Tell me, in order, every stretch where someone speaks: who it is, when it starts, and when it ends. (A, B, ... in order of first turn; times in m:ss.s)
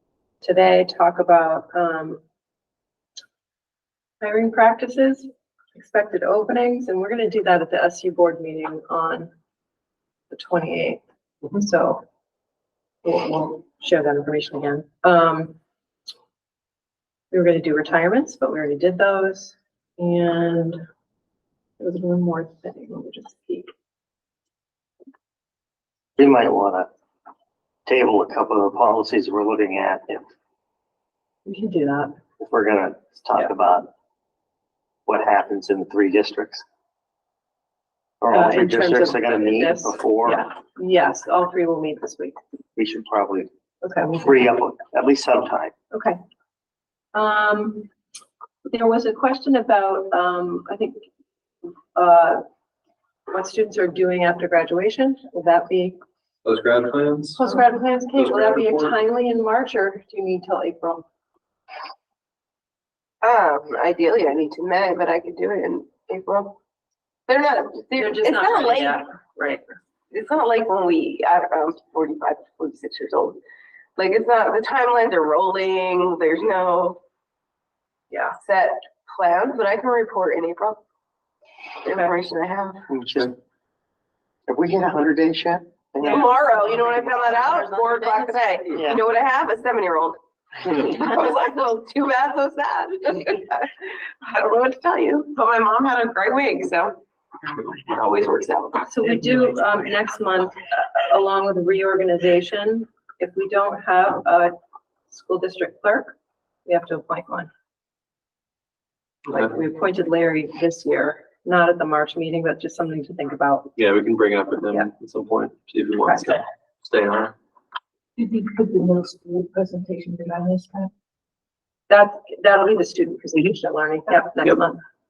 0:00.4-0:02.2 A
0:04.2-0:09.3 A
0:10.3-0:12.0 A
0:13.0-0:15.6 A
0:17.3-0:20.8 A
0:21.8-0:23.7 A
0:26.2-0:26.9 B
0:27.8-0:30.2 B
0:31.4-0:32.1 A
0:32.4-0:33.9 B
0:35.0-0:36.6 B
0:38.2-0:40.4 B
0:38.3-0:42.4 A
0:42.8-0:43.5 B
0:43.8-0:44.4 A
0:44.1-0:45.7 B
0:45.9-0:46.2 A
0:47.1-0:47.9 A
0:48.7-0:51.0 A
0:51.9-0:52.4 A
0:53.3-0:55.9 A
0:56.4-0:57.4 C
0:57.4-1:01.0 A
0:58.1-0:59.0 C
1:03.2-1:06.6 D
1:07.3-1:09.0 D
1:08.0-1:09.6 A
1:10.1-1:13.4 D
1:14.0-1:17.0 D
1:18.1-1:18.4 A
1:18.4-1:20.8 D
1:21.8-1:22.8 D
1:22.9-1:23.3 B
1:24.5-1:26.3 B
1:26.0-1:37.0 D
1:26.0-1:26.4 A
1:37.6-1:38.9 D
1:38.8-1:44.5 A
1:45.1-1:46.1 A
1:46.6-1:47.5 A
1:49.3-1:53.7 A
1:53.8-1:57.3 C
1:56.0-1:56.3 A
1:58.2-2:00.9 E
2:01.9-2:04.8 A